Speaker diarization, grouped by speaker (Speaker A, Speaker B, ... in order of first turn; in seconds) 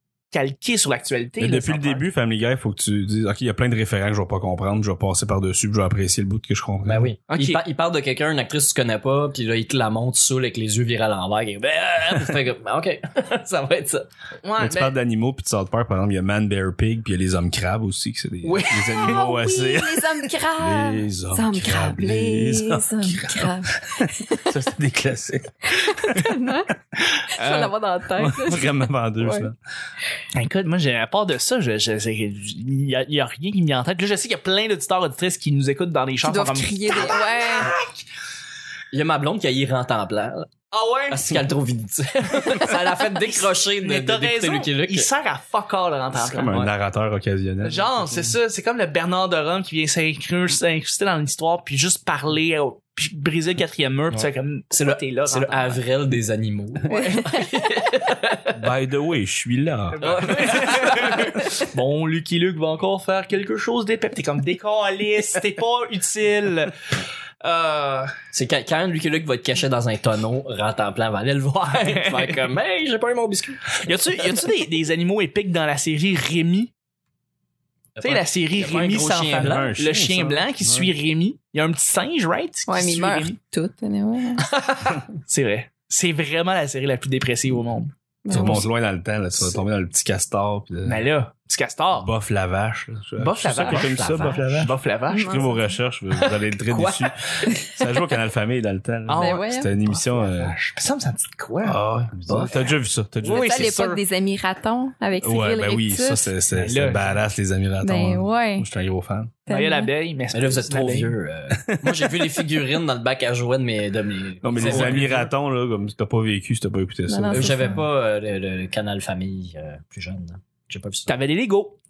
Speaker A: 0.3-2.0, 7.3-7.6, 14.4-14.9, 18.4-19.2, 27.4-27.7, 30.3-38.0, 40.7-41.3, 42.5-46.6, 47.6-55.8, 56.9-57.3, 59.9-66.8, 67.4-68.1, 71.7-72.5, 73.7-76.7, 78.0-83.4, 84.5-88.6, 90.8-92.1, 93.2-94.0, 94.6-95.5, 99.1-101.8, 103.2-104.0, 106.5-107.2, 109.5-111.2, 114.5-115.3, 121.1-121.8
Speaker B: 1.4-7.1, 14.6-26.3, 28.1-29.6, 46.1-48.0, 58.6-60.0, 79.4-80.9, 88.3-91.1, 92.0-100.6, 101.6-103.8, 105.2-109.3, 111.6-112.2, 114.4-117.8
Speaker C: 6.9-14.0, 38.9-40.5, 41.1-45.1, 54.7-58.5, 60.0-61.5, 68.3-74.4, 78.0-79.7, 93.5-94.7, 96.7-97.1, 102.3-102.5, 110.3-115.2, 117.3-121.2
Speaker D: 18.9-24.5, 25.8-26.7, 27.4-29.5, 36.2-37.7, 56.9-57.5, 82.7-84.5, 88.2-88.7, 95.1-95.8, 97.5-97.9, 99.1-99.7, 103.2-106.3, 107.8-108.7, 109.5-109.9, 117.1-117.8